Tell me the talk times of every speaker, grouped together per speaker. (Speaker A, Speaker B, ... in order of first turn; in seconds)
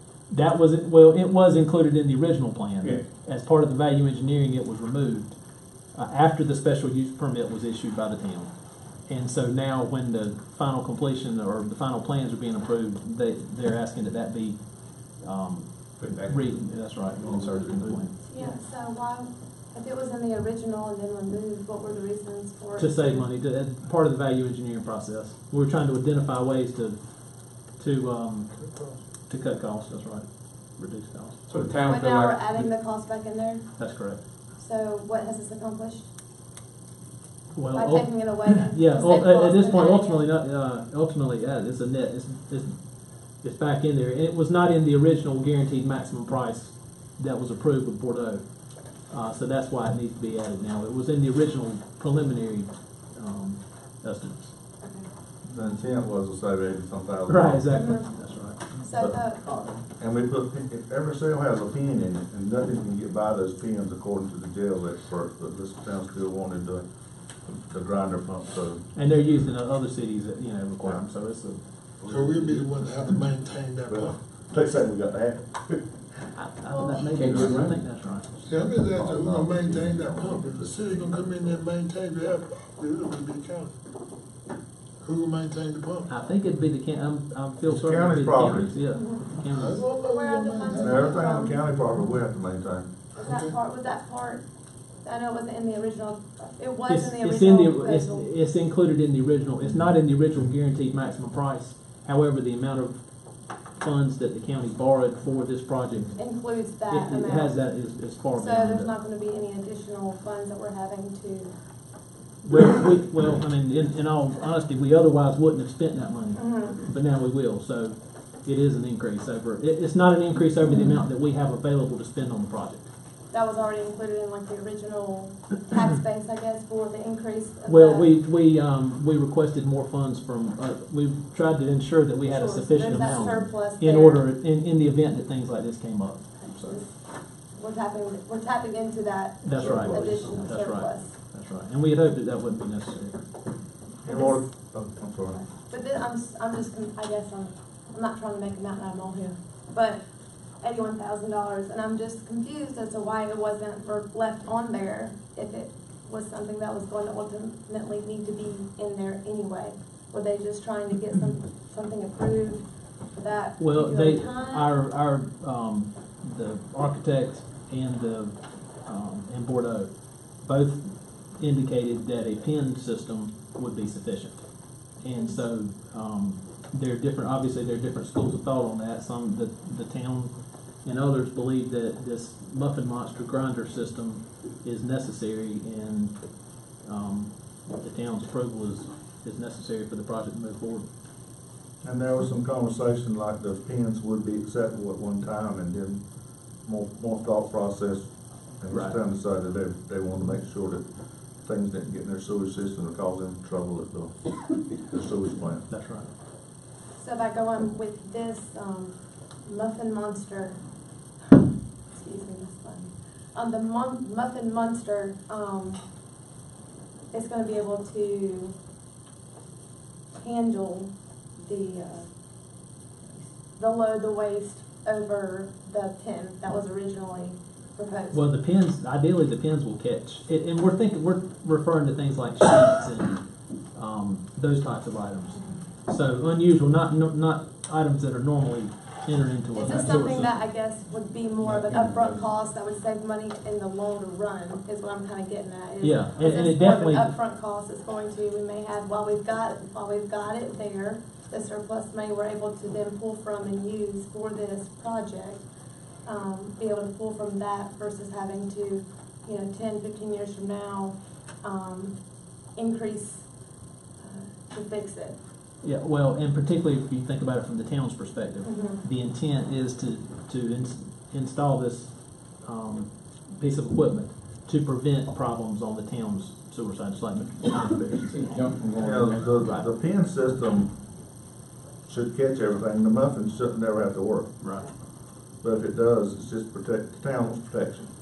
Speaker A: 0.3-18.2, 22.8-31.4, 33.8-34.2, 37.5-54.5, 57.3-58.6, 68.9-71.7, 76.3-78.3, 86.1-89.8, 96.8-108.9, 112.4-122.9, 127.7-136.8, 139.4-143.2, 163.6-190.9, 198.7-199.0, 205.7-206.1, 228.1-240.3, 245.8-247.1, 265.6-278.2, 284.4-284.7
Speaker B: 2.8-3.0, 16.0-18.0, 31.5-32.7, 77.0-77.8, 277.9-279.4
Speaker C: 18.2-23.3, 31.9-33.9, 34.5-36.1, 37.7-40.2, 54.8-55.1, 57.7-59.5, 76.7-77.0, 88.9-89.2, 89.9-91.6, 93.1-94.4, 95.0-98.3, 106.2-107.7, 108.3-111.5, 116.3-116.8, 123.3-128.1, 132.3-134.2, 136.4-141.1, 144.0-144.5, 145.4-150.0, 150.6-162.6, 163.2-164.7, 175.1-175.4, 207.0-210.6, 211.3-215.8, 217.1-218.5, 220.1-228.2, 239.5-255.4, 256.0-262.0, 262.5-263.3, 264.0-265.2, 268.4-268.8
Speaker D: 28.6-29.0, 72.1-74.2, 78.4-83.7, 85.0-86.1, 89.5-91.4, 93.2-93.5
Speaker E: 55.4-57.7, 60.0-66.8, 67.4-68.9, 73.9-76.1, 78.5-81.5, 87.6-88.7, 90.8-92.9, 139.5-140.4, 144.0-145.4, 191.8-196.0, 196.6-200.9, 201.4-205.7, 278.8-280.7, 281.9-284.3, 285.4-287.9